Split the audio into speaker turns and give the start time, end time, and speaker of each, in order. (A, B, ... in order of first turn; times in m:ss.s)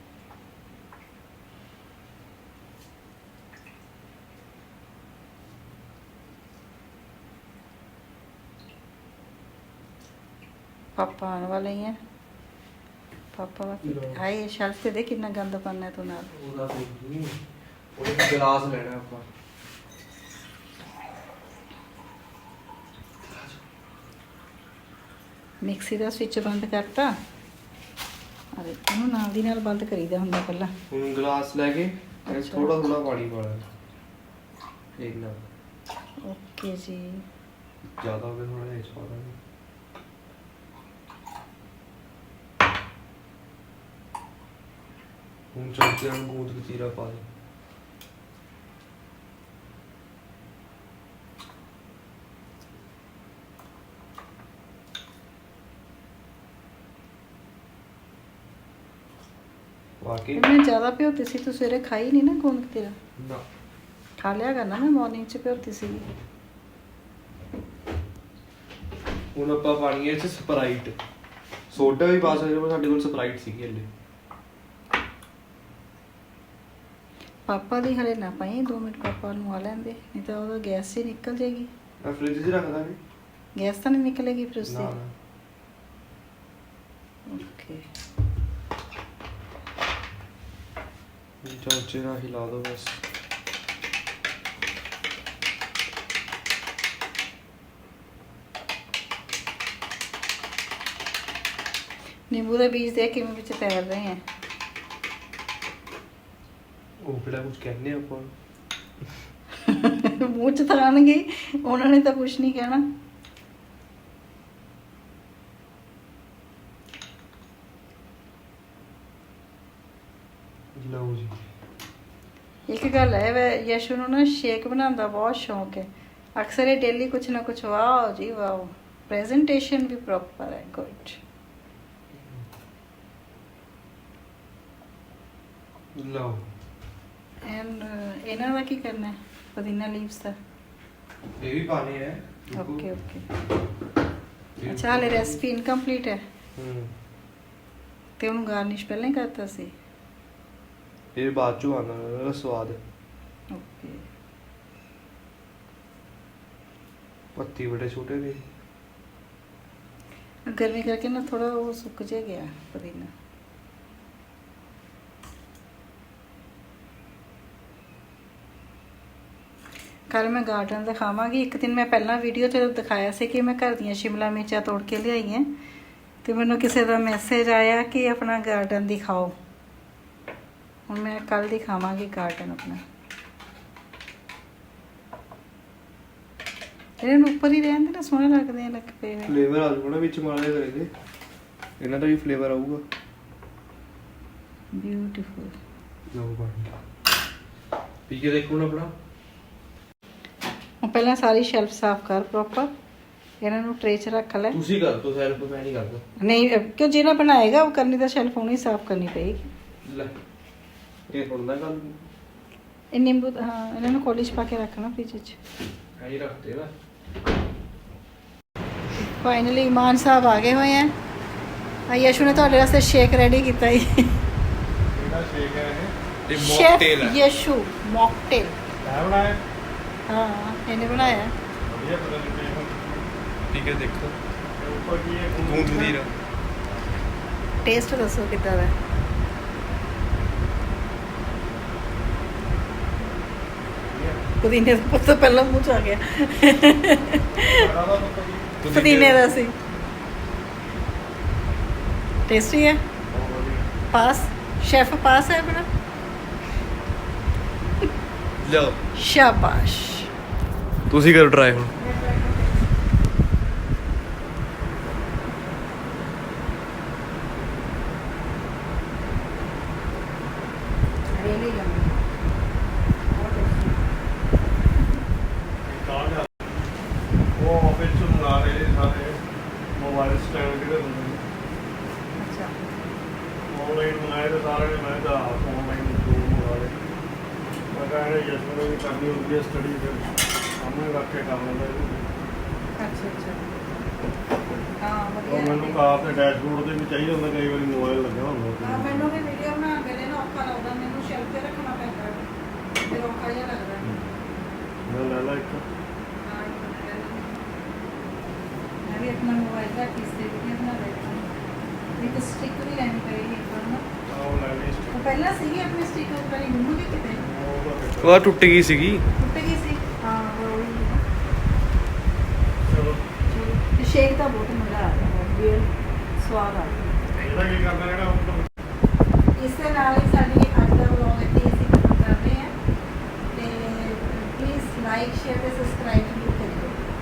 0:11.0-0:12.0 A
0:13.3-0:16.3 A
0:13.8-0:14.2 B
0:16.3-0:17.4 B
0:18.0-0:19.3 B
0:23.3-0:23.6 B
0:25.6-0:27.1 A
0:28.6-0:30.7 A
0:30.9-0:33.6 B
0:32.3-0:32.7 A
0:35.0-0:35.4 B
0:36.2-0:37.2 A
0:38.0-0:39.4 B
0:45.5-0:47.2 B
1:00.0-1:00.5 B
1:00.4-1:03.0 A
1:03.2-1:03.4 B
1:04.2-1:06.0 A
1:09.3-1:11.0 B
1:11.7-1:13.9 B
1:11.9-1:12.4 A
1:17.5-1:21.7 A
1:22.0-1:23.0 B
1:23.6-1:24.9 A
1:24.7-1:25.1 B
1:27.3-1:27.8 A
1:31.4-1:33.0 B
1:42.3-1:44.2 A
1:47.0-1:48.3 B
1:49.6-1:52.8 A
2:00.8-2:01.4 B
2:02.7-2:11.2 A
2:12.1-2:12.4 B
2:16.0-2:16.4 B
2:17.5-2:20.4 A
2:21.4-2:22.9 B
2:22.6-2:23.3 A
2:24.6-2:25.4 B
2:24.6-2:26.2 A
2:26.6-2:26.9 B
2:28.2-2:29.7 A
2:31.2-2:32.8 B
2:33.5-2:34.0 A
2:37.4-2:38.4 B
2:40.5-2:43.1 A
2:50.1-2:55.5 A
2:56.2-2:59.4 A
3:00.9-3:02.8 A
3:07.0-3:09.3 A
3:09.3-3:10.9 B
3:11.8-3:12.8 B
3:14.8-3:15.6 A
3:16.1-3:16.7 B
3:18.1-3:18.9 B
3:20.8-3:22.7 A
3:23.4-3:24.6 A
3:24.5-3:26.0 B
3:26.2-3:29.5 A
3:29.8-3:30.1 B
3:31.1-3:32.0 B
3:32.9-3:35.4 A
3:36.0-3:36.7 B
3:39.0-3:40.9 A
3:41.9-3:44.2 A
3:44.9-3:45.9 C
3:46.3-3:47.2 B
3:46.4-3:48.5 A
3:48.8-3:49.4 C
3:50.1-3:51.3 A
3:50.8-3:53.0 C
3:53.5-3:54.2 B
3:54.6-3:56.0 C
3:55.4-3:56.1 B
3:57.6-3:58.7 A
4:04.4-4:07.6 A
4:07.3-4:08.5 C
4:08.6-4:09.2 B
4:08.7-4:09.6 A
4:12.3-4:12.8 A
4:13.1-4:13.7 C
4:13.9-4:15.7 A
4:18.4-4:18.8 B
4:19.0-4:20.1 A
4:20.9-4:21.7 B
4:21.8-4:22.6 A
4:31.1-4:32.0 A
4:33.1-4:33.8 A
4:35.6-4:36.3 C
4:37.4-4:39.2 C
4:39.8-4:41.2 C
4:42.2-4:42.6 A
4:43.5-4:46.8 C
4:47.7-4:52.0 C
4:52.8-4:53.4 A
4:54.8-4:55.8 A
4:55.3-4:59.2 C
4:58.6-5:02.3 A
5:02.8-5:03.9 A
5:04.9-5:05.6 C
5:06.2-5:07.5 A
5:08.8-5:11.3 A
5:12.0-5:13.8 A
5:14.1-5:15.0 C
5:14.9-5:17.2 A
5:17.1-5:18.2 C
5:18.0-5:19.0 B
5:19.2-5:21.0 A
5:22.7-5:23.0 C
5:23.3-5:26.9 A
5:27.2-5:28.5 C
5:29.4-5:32.6 A
5:33.3-5:36.8 A